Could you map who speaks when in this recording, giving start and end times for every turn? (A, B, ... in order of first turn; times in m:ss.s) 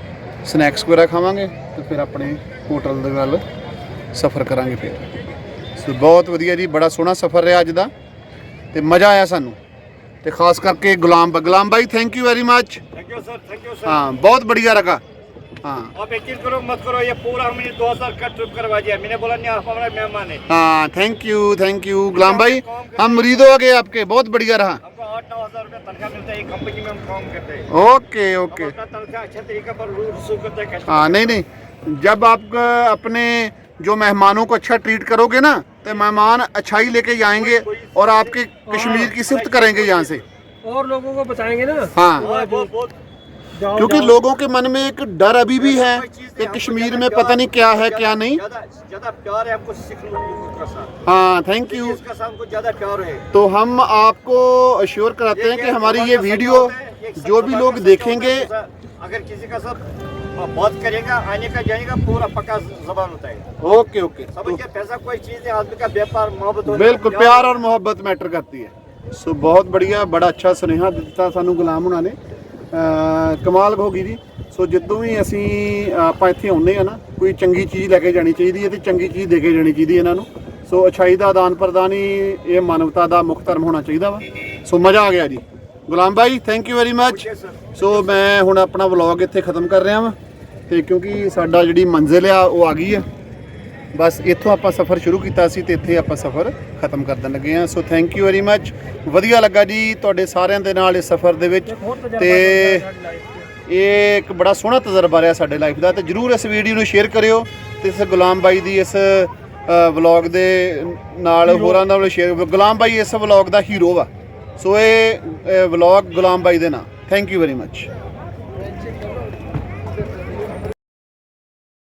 0:00.4-0:03.4 A
0:04.1-0:05.0 A
0:05.8-0:07.9 A
0:08.7-0:09.6 A
0:10.2-0:12.8 A
0:12.9-0:14.0 B
0:13.8-0:15.0 A
0:15.6-0:15.9 A
0:15.9-0:20.4 B
0:20.5-0:24.8 A
0:22.2-0:23.6 B
0:24.8-0:27.7 B
0:27.7-0:28.7 A
0:28.5-0:31.4 B
0:30.9-0:40.2 A
0:37.3-0:38.4 B
0:38.7-0:39.1 C
0:39.0-0:40.2 B
0:40.6-0:42.6 C
0:41.9-0:42.3 A
0:42.2-0:43.0 B
0:43.6-0:44.2 C
0:43.7-0:48.4 A
0:45.6-0:50.9 B
0:51.0-0:52.0 A
0:51.7-0:53.2 B
0:53.3-0:58.5 A
0:55.3-1:03.4 B
1:03.6-1:04.6 A
1:04.3-1:07.6 B
1:06.7-1:12.2 A
1:12.7-1:30.2 A
1:27.0-1:27.8 B
1:30.7-1:33.0 A
1:33.9-1:42.9 A
1:41.7-1:43.4 C
1:43.6-1:57.9 A